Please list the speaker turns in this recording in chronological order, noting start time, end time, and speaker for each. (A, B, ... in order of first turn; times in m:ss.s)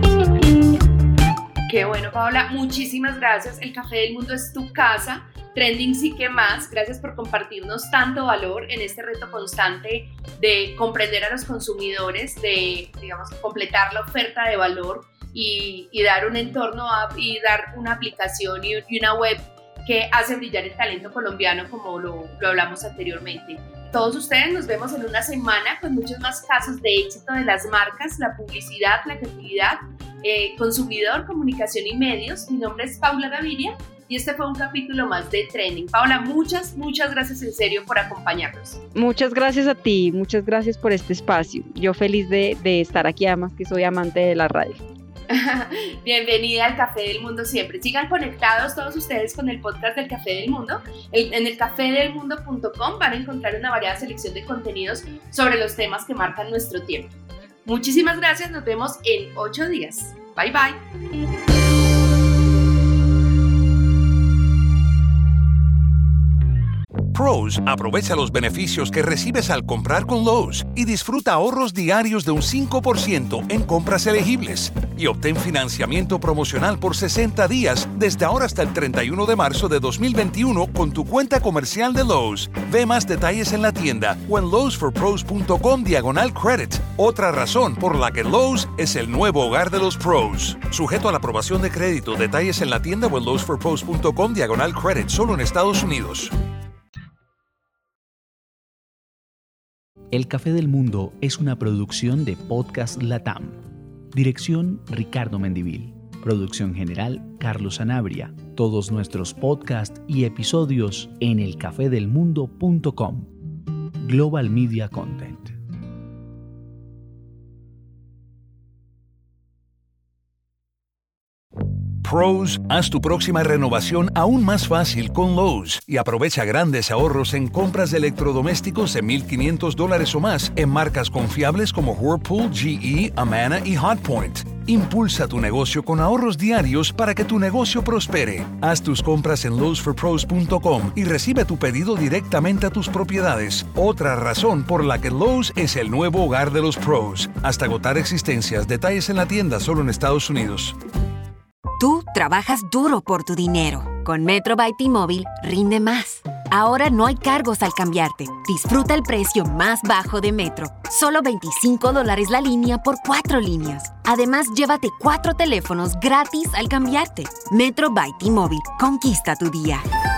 0:01.7-0:38.8 A
0:38.9-0:44.8 B
0:45.3-1:00.8 A
1:07.1-1:36.3 C
1:40.1-1:43.6 D
1:44.1-1:53.3 D
1:54.0-1:55.6 D
2:02.0-2:30.8 C
2:31.8-2:49.8 E